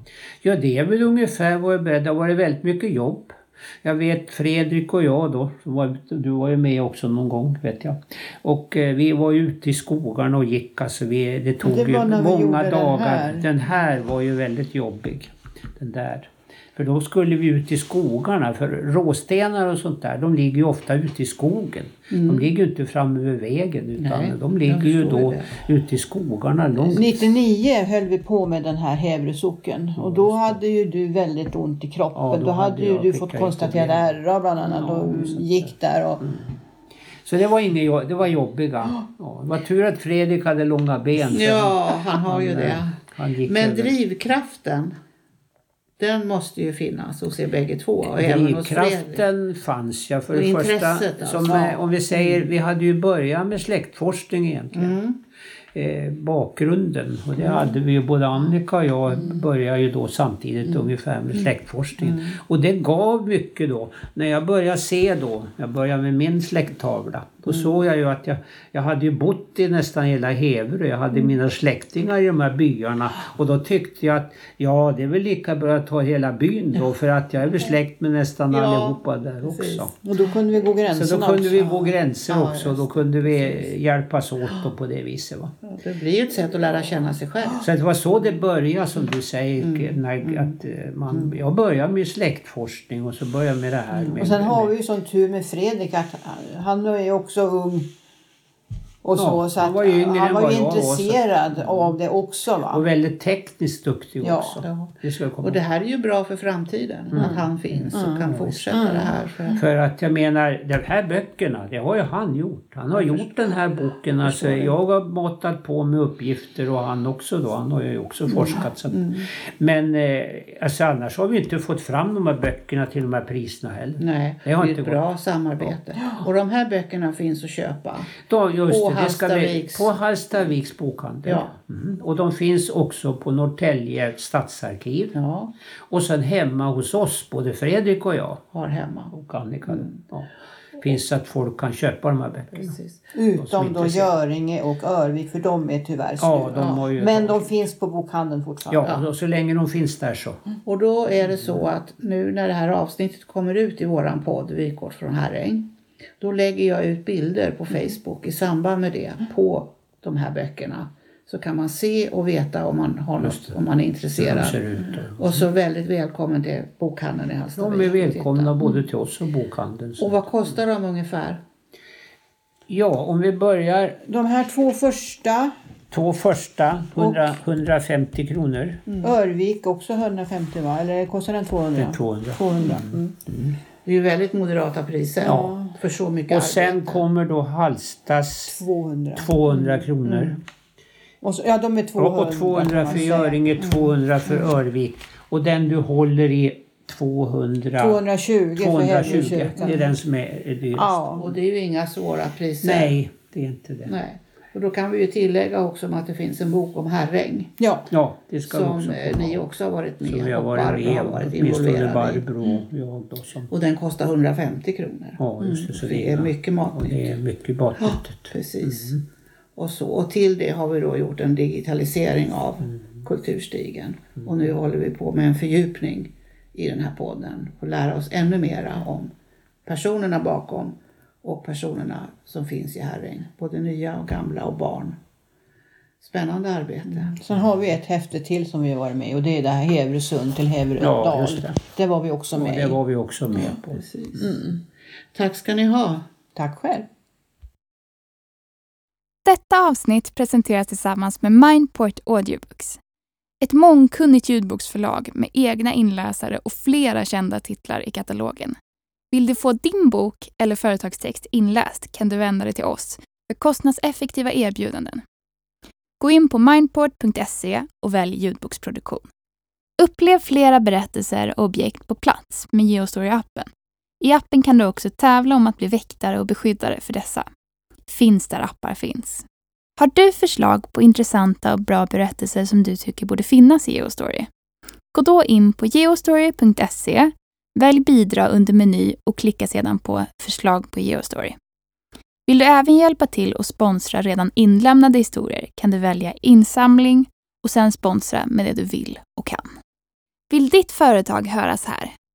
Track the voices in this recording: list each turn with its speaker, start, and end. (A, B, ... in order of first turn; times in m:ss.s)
0:00.4-0:27.2 A
0:11.6-0:13.5 B
0:22.1-0:22.4 C
0:24.0-0:25.5 C
0:26.8-0:27.0 C
0:26.9-0:36.2 B
0:30.0-0:30.6 A
0:32.1-0:34.2 A
0:34.8-0:36.5 A
0:37.2-0:43.9 A
0:41.3-0:44.9 C
0:46.0-0:49.2 C
0:48.0-0:55.0 A
0:50.3-0:52.4 C
0:54.7-0:55.2 C
0:55.7-1:19.9 A
1:02.0-1:02.3 C
1:18.5-1:19.9 C
1:20.0-1:22.9 B
1:20.9-1:25.5 A
1:25.6-1:27.6 C
1:27.6-1:34.7 A
1:29.6-1:30.5 C
1:34.2-1:37.9 B
1:39.0-1:42.8 B
1:39.1-1:41.9 A
1:42.7-1:45.6 A
1:44.2-1:44.6 B
1:44.6-1:49.6 C
1:47.9-1:49.1 B
1:49.6-2:05.0 A
1:52.9-1:53.3 C
1:54.2-1:54.7 C
1:58.3-1:59.3 C
2:04.0-2:08.2 C
2:08.2-2:15.2 A
2:08.7-2:09.9 C
2:11.2-2:11.5 C
2:15.1-2:15.5 C
2:15.9-2:18.4 A
2:18.5-2:19.1 C
2:19.1-2:22.8 A
2:19.7-2:20.0 C
2:22.5-2:23.0 C
2:23.1-2:29.0 B
2:23.4-2:24.2 A
2:26.2-2:27.5 A
2:26.6-2:26.8 C
2:28.7-2:30.4 A
2:30.6-2:35.7 C
2:36.2-2:48.7 C
2:43.2-2:43.5 A
2:44.2-2:45.4 A
2:47.6-2:50.3 A
2:50.0-2:51.4 C
2:52.7-2:54.0 A
2:54.1-2:55.5 B
2:55.9-2:58.8 A
2:57.0-2:57.4 B
2:58.9-2:59.1 C
2:59.0-3:03.1 B
3:01.8-3:03.6 A
3:03.8-3:07.0 C
3:05.2-3:05.7 B
3:05.2-3:05.6 A
3:06.3-3:08.6 A
3:08.5-3:09.7 B
3:09.2-3:10.4 A
3:10.0-3:10.4 C
3:11.2-3:13.4 B
3:12.0-3:18.0 A
3:13.6-3:13.8 C
3:17.8-3:19.8 B
3:18.6-3:21.0 A
3:20.7-3:21.3 B
3:21.2-3:23.0 C
3:22.6-3:23.9 A
3:23.8-3:27.5 C
3:27.6-3:27.9 B
3:27.9-3:29.4 A
3:28.5-3:32.2 C
3:30.0-3:33.5 A
3:33.5-3:37.1 C
3:35.2-3:39.0 A
3:38.3-3:39.0 C
3:39.6-3:49.1 C
3:49.6-3:54.9 C
3:56.0-3:57.1 C
3:57.0-4:02.8 B
4:00.8-4:01.6 A
4:02.3-4:03.8 A
4:03.4-4:04.4 C
4:04.2-4:04.6 B
4:05.1-4:06.0 C
4:06.3-4:06.9 B
4:09.2-4:12.8 D
4:13.4-4:18.6 D
4:19.1-4:25.0 D
4:26.0-4:29.0 D
4:29.8-4:33.5 D
4:34.0-4:37.2 D
4:37.9-4:39.2 D
4:39.8-4:44.3 D
4:44.9-4:51.3 D
4:52.3-4:59.5 D
5:00.3-5:01.9 D